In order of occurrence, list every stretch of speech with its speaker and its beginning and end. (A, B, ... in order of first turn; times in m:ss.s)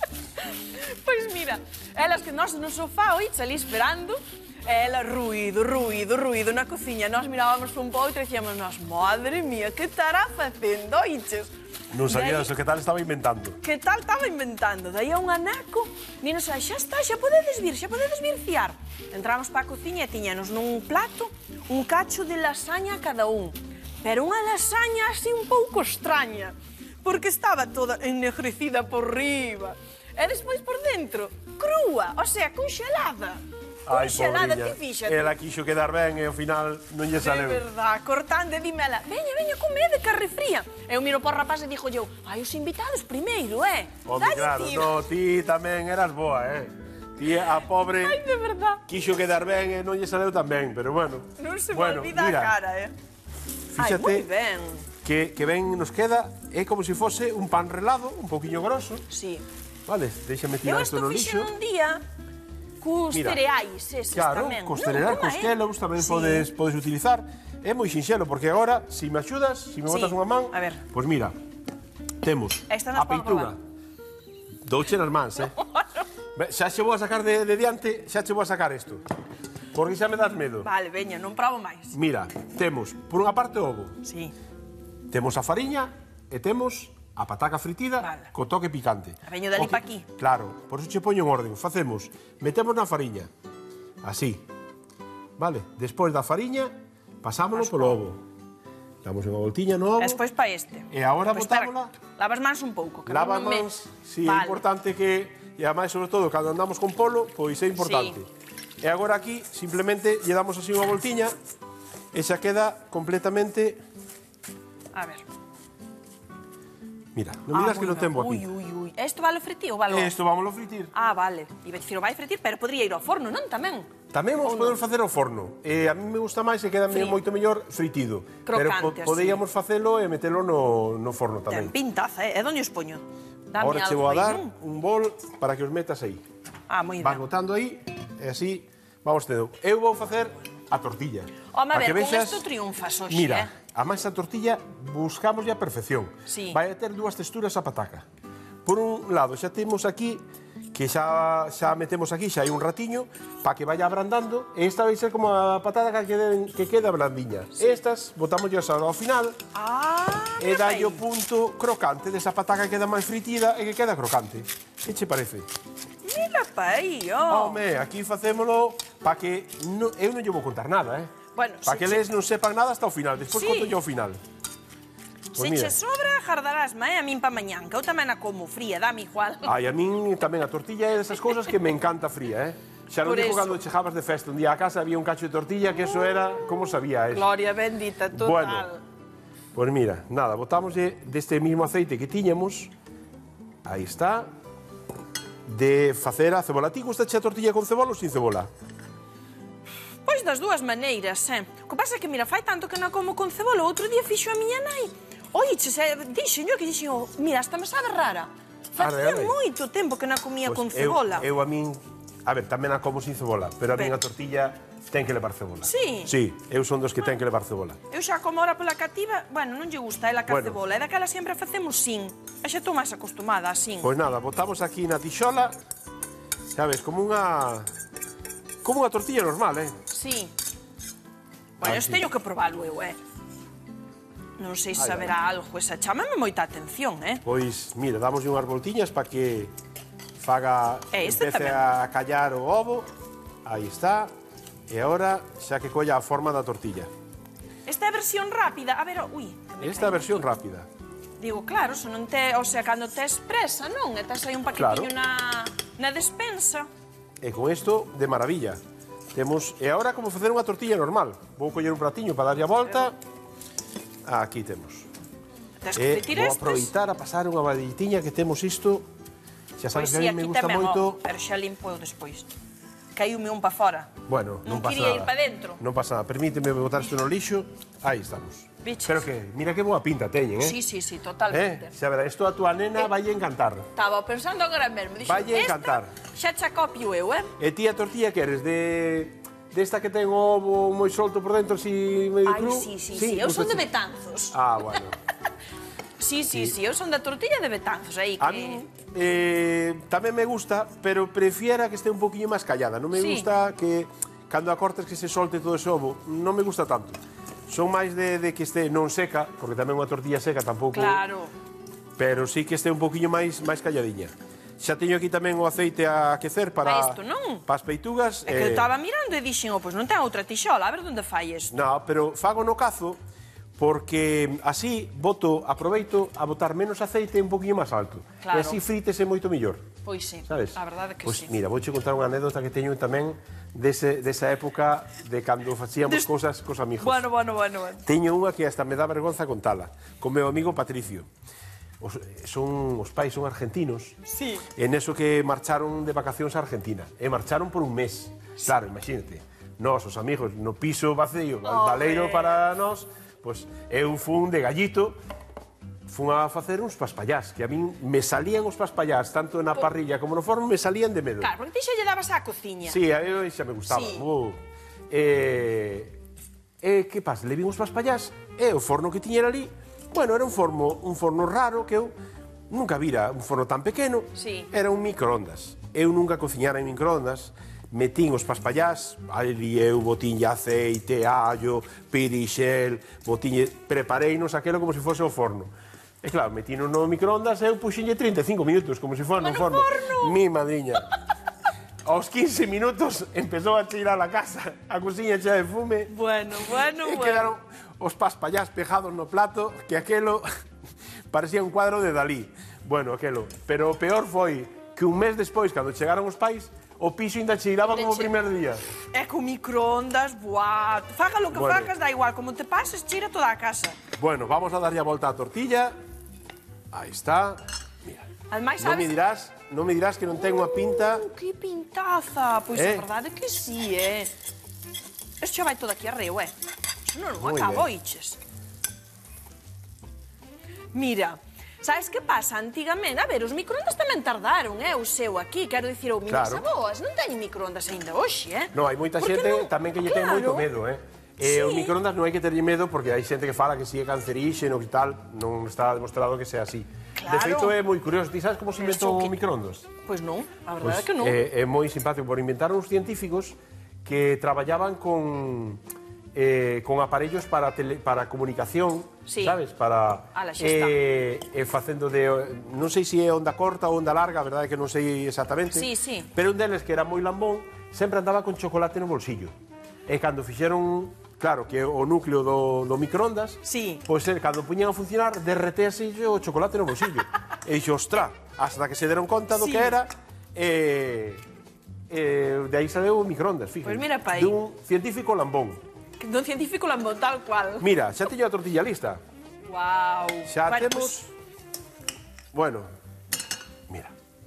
0:00.4-0:11.5 A
0:11.9-0:13.6 B
0:12.0-0:12.5 A
0:13.6-0:35.3 A
0:33.8-0:37.7 B
0:37.2-0:45.0 A
0:44.0-0:48.2 B
0:47.8-0:48.8 A
0:48.9-0:52.6 B
0:51.4-0:52.9 A
0:53.7-0:54.3 B
0:53.8-0:54.8 A
0:55.0-0:59.0 B
0:59.1-0:59.4 A
0:59.8-1:01.5 B
1:00.6-1:02.0 A
1:02.8-1:06.5 A
1:03.1-1:03.4 B
1:04.1-1:11.4 B
1:09.9-1:10.8 A
1:12.2-1:13.6 B
1:12.7-1:13.5 A
1:14.6-1:15.5 B
1:16.3-1:19.0 B
1:19.7-1:20.7 B
1:20.6-1:22.0 A
1:21.9-1:24.0 B
1:24.0-1:24.3 A
1:25.1-1:33.3 B
1:28.0-1:28.3 A
1:29.2-1:30.0 A
1:34.0-1:34.4 B
1:35.4-1:38.2 B
1:37.6-1:38.0 A
1:39.0-1:40.2 B
1:40.0-1:43.7 A
1:40.9-1:41.9 B
1:43.1-1:48.3 B
1:44.2-1:44.6 A
1:47.8-1:48.2 A
1:48.8-1:51.4 B
1:52.1-1:53.8 B
1:54.9-1:55.2 A
1:57.1-1:58.5 B
1:57.5-2:00.1 A
1:59.9-2:00.9 B
2:00.9-2:04.8 A
2:04.1-2:11.7 B
2:06.9-2:07.2 A
2:08.4-2:09.4 A
2:11.5-2:14.5 A
2:13.6-2:16.2 B
2:16.7-2:17.2 A
2:17.0-2:22.5 B
2:21.5-2:23.5 A
2:23.1-2:28.0 B
2:26.3-2:26.6 A
2:28.6-2:39.4 B
2:39.5-2:41.0 A
2:40.4-2:45.5 B
2:46.0-2:47.6 A
2:47.3-2:51.1 B
2:51.3-2:52.0 A
2:51.6-2:54.2 B
2:53.3-2:53.8 A
2:55.3-2:59.5 A
2:55.3-2:55.7 B
2:59.4-3:07.3 B
3:03.0-3:03.6 A
3:07.1-3:08.8 A
3:08.1-3:08.7 B
3:09.5-3:12.7 B
3:13.6-3:14.3 B
3:15.4-3:18.5 B
3:20.0-3:31.3 A
3:28.8-3:29.4 B
3:30.4-3:37.8 B
3:35.6-3:36.1 A
3:37.9-3:43.9 A
3:40.3-3:40.6 B
3:43.8-3:45.6 B
3:46.5-3:47.7 B
3:48.6-3:49.8 B
3:49.9-3:50.3 A
3:51.6-3:53.0 A
3:51.6-3:52.1 B
3:54.4-3:57.2 A
3:54.7-3:55.1 B
3:57.2-3:59.5 B
4:00.2-4:02.9 B
4:00.9-4:01.6 A
4:03.4-4:04.1 B
4:04.7-4:06.9 B
4:07.6-4:10.2 A
4:09.6-4:10.7 B
4:11.2-4:16.7 A
4:14.5-4:14.9 B
4:17.2-4:18.6 B
4:19.1-4:23.0 B
4:24.0-4:24.9 B
4:25.6-4:26.7 A
4:25.7-4:28.9 B
4:29.6-4:31.0 B
4:29.7-4:32.3 A
4:32.9-4:35.6 A
4:34.1-4:40.6 B
4:38.6-4:39.0 A
4:40.4-4:41.7 A
4:41.3-4:43.7 B
4:43.7-4:47.3 A
4:45.0-4:45.9 B
4:47.4-4:53.7 B
4:52.2-4:54.8 A
4:54.3-4:55.0 B
4:56.0-4:58.6 A
4:58.2-5:11.0 B
5:02.9-5:03.3 A
5:10.7-5:11.3 A
5:12.0-5:18.7 B
5:16.6-5:17.4 A
5:18.2-5:21.5 A
5:21.5-5:23.0 B
5:23.6-5:29.7 B
5:28.2-5:28.6 A
5:29.8-5:31.3 A
5:30.2-5:37.1 B
5:36.8-5:37.8 A
5:37.8-5:41.1 B
5:41.8-5:55.0 B
5:44.0-5:44.4 A
5:51.4-5:52.4 A
5:55.9-6:01.3 B
6:01.2-6:02.8 A
6:02.7-6:06.0 B
6:03.7-6:04.0 A
6:06.6-6:11.9 B
6:12.5-6:30.8 B
6:14.1-6:14.5 A
6:29.2-6:30.2 A
6:31.8-6:40.3 B
6:35.9-6:37.3 A
6:41.1-6:48.6 B
6:47.6-6:48.1 A
6:48.9-6:53.8 A
6:51.3-6:51.7 B
6:54.0-6:55.8 B
6:56.7-6:58.1 B
6:58.3-6:59.0 A
6:58.6-7:01.0 B
7:00.1-7:04.1 A
7:02.5-7:02.9 B
7:05.2-7:06.3 A
7:06.9-7:08.2 A
7:07.2-7:07.7 B
7:10.7-7:20.5 A
7:16.1-7:16.5 B
7:18.5-7:29.7 B
7:21.2-7:21.8 A
7:27.0-7:27.6 A
7:28.6-7:29.1 A
7:29.8-7:31.2 A
7:30.6-7:35.6 B
7:36.1-7:49.3 B
7:39.0-7:39.4 A
7:40.1-7:40.8 A
7:45.5-7:46.1 A
7:49.9-8:01.2 B
7:53.4-7:53.8 A
7:59.4-7:59.7 A
8:01.9-8:05.6 B
8:03.6-8:04.4 A
8:06.0-8:07.7 A
8:07.6-8:09.0 B
8:09.4-8:11.0 A
8:10.2-8:11.1 B
8:12.3-8:12.7 B
8:13.7-8:13.9 B